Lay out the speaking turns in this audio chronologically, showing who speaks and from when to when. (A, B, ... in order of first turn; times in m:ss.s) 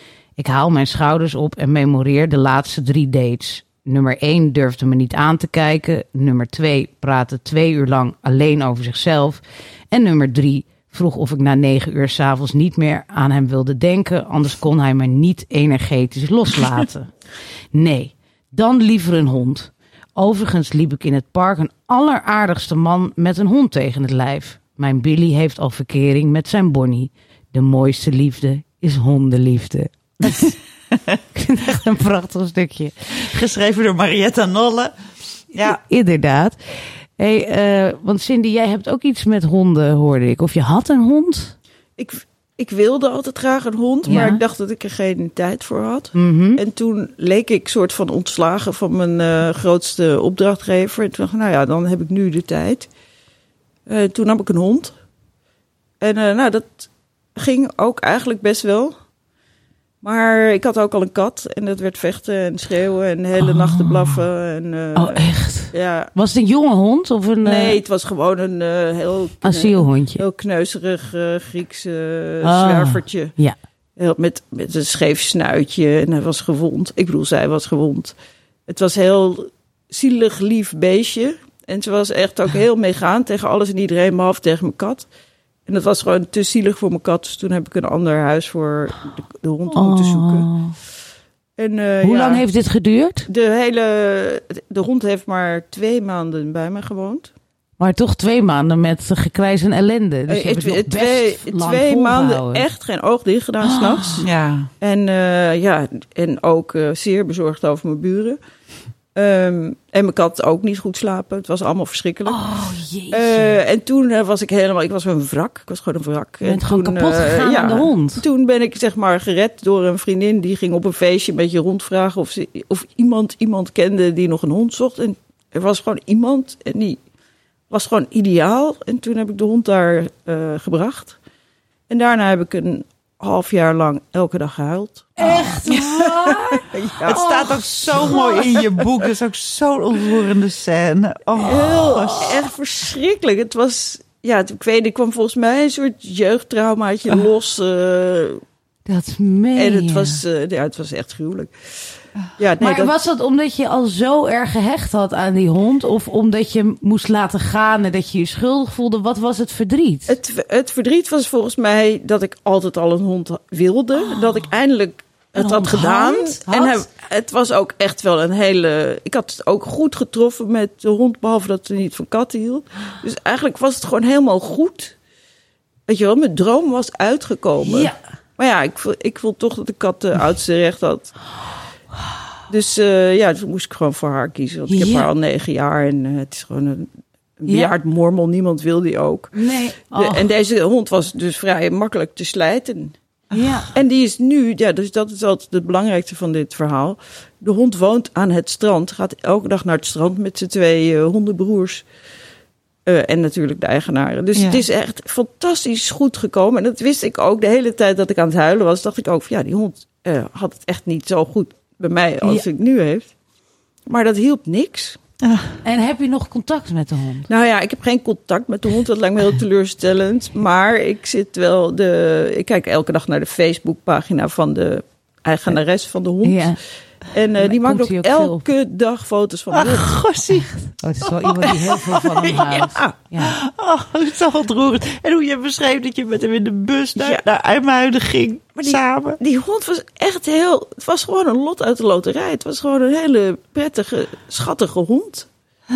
0:00.4-0:17.1 A
0:17.7-0:30.6 A
0:30.9-0:31.2 B
0:31.4-0:32.9 A
0:33.2-0:35.0 B
0:35.5-0:35.8 B
0:35.6-0:41.6 A
0:42.0-0:52.9 C
0:44.1-0:44.4 A
0:46.2-0:46.6 A
0:53.9-0:54.9 C
0:56.0-0:59.0 C
1:00.0-1:06.1 C
1:05.0-1:07.8 A
1:07.4-1:13.3 C
1:09.4-1:10.2 A
1:12.4-1:13.6 A
1:14.0-1:18.1 C
1:18.7-1:25.1 C
1:25.7-1:30.5 C
1:29.7-1:30.7 A
1:31.6-1:32.4 C
1:32.0-1:33.3 A
1:33.3-1:37.3 C
1:37.8-1:42.7 A
1:40.3-1:44.3 C
1:43.6-1:44.2 A
1:44.2-1:44.7 B
1:44.8-1:48.4 C
1:49.2-1:52.4 C
1:52.3-1:53.6 A
1:53.1-2:07.0 C
1:56.4-1:58.2 A
2:07.7-2:11.2 C
2:11.9-2:17.3 C
2:15.2-2:18.4 A
2:17.0-2:22.4 B
2:18.0-2:18.6 C
2:21.4-2:28.4 C
2:28.9-2:30.2 A
2:29.6-2:31.5 C
2:32.4-2:33.0 C
2:32.6-2:40.2 A
2:40.1-2:55.0 C
2:45.4-2:46.8 A
2:55.9-3:01.2 C
2:57.6-2:58.0 A
3:02.5-3:09.4 C
3:04.7-3:05.1 A
3:07.5-3:07.7 A
3:09.3-3:10.3 A
3:09.9-3:12.9 C
3:13.3-3:13.7 A
3:13.7-3:21.8 C
3:22.9-3:33.1 C
3:24.4-3:24.6 B
3:33.9-3:35.0 C
3:35.2-3:35.5 B
3:35.6-3:37.3 A
3:37.3-3:46.6 C
3:46.2-3:46.6 A
3:47.1-3:50.0 C
3:47.4-3:48.5 A
3:49.5-3:50.5 B
3:50.4-3:53.4 A
3:51.0-3:51.8 B
3:52.2-3:52.9 C
3:53.2-3:59.2 B
3:57.0-3:57.2 C
3:58.6-4:05.3 C